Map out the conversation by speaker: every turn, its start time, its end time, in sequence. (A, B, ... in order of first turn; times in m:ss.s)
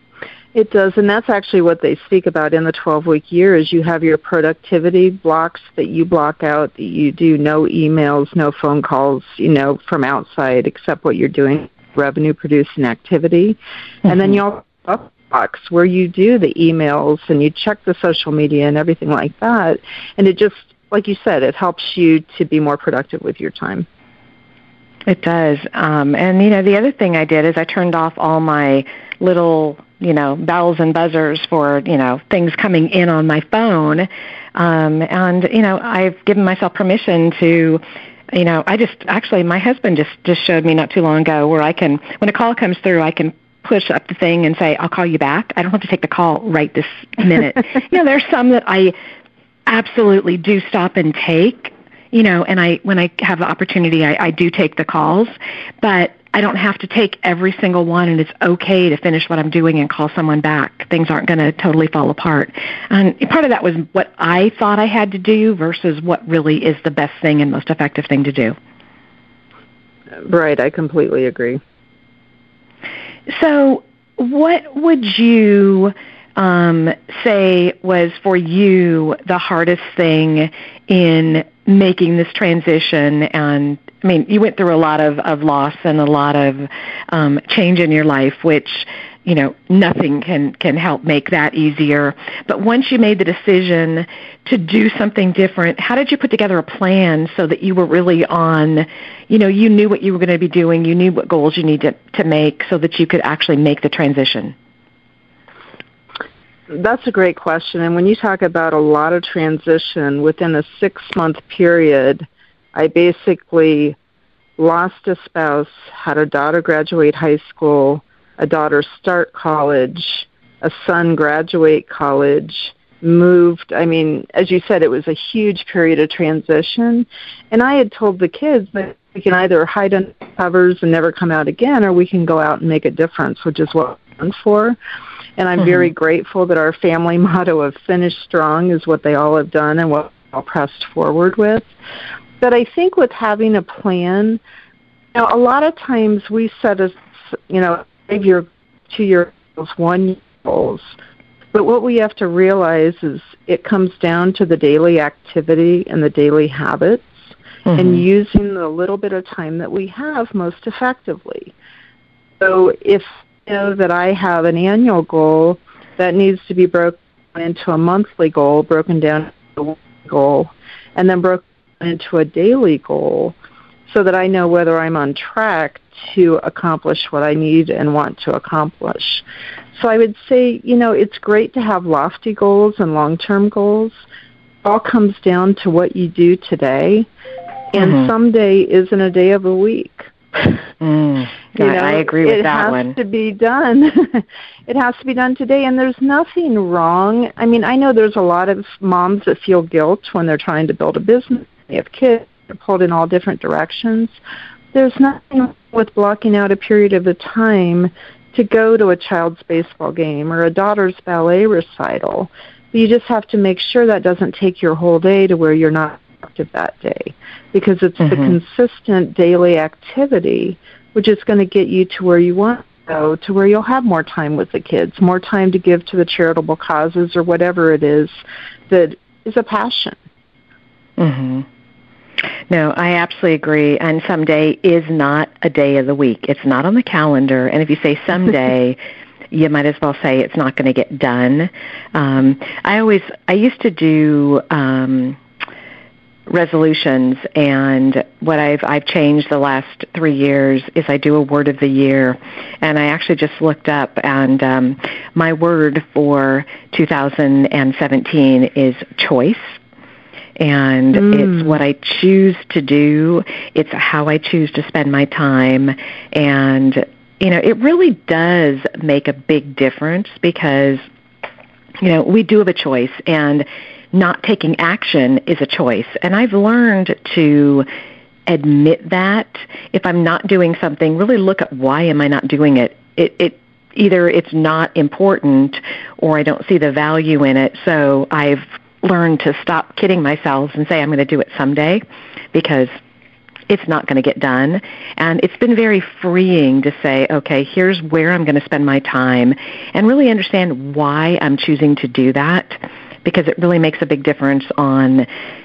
0:00.5-0:23.9 A
0:25.1-0:49.0 B
0:49.7-1:08.6 B
1:10.2-1:11.6 A
1:13.3-1:44.5 B
1:46.7-1:54.0 A
1:54.6-2:14.8 A
2:15.4-2:21.7 A
2:22.4-2:24.4 A
2:25.1-2:27.0 A
2:27.5-2:30.9 A
2:31.5-2:37.2 A
2:37.7-2:38.0 B
2:37.8-2:41.5 A
2:42.4-2:53.3 A
2:53.9-2:59.2 A
2:59.8-3:04.0 A
3:04.6-3:07.1 A
3:07.7-3:10.1 A
3:07.8-3:08.1 B
3:10.8-3:13.0 B
3:11.6-3:24.2 A
3:24.7-3:48.2 A
3:38.0-3:38.4 B
3:48.7-3:50.0 A
3:51.0-3:51.5 B
3:52.5-3:58.8 B
3:59.3-4:05.2 B
4:06.3-4:19.4 B
4:20.4-4:30.8 B
4:31.8-4:37.7 B
4:38.3-4:52.7 B
4:53.5-5:05.1 B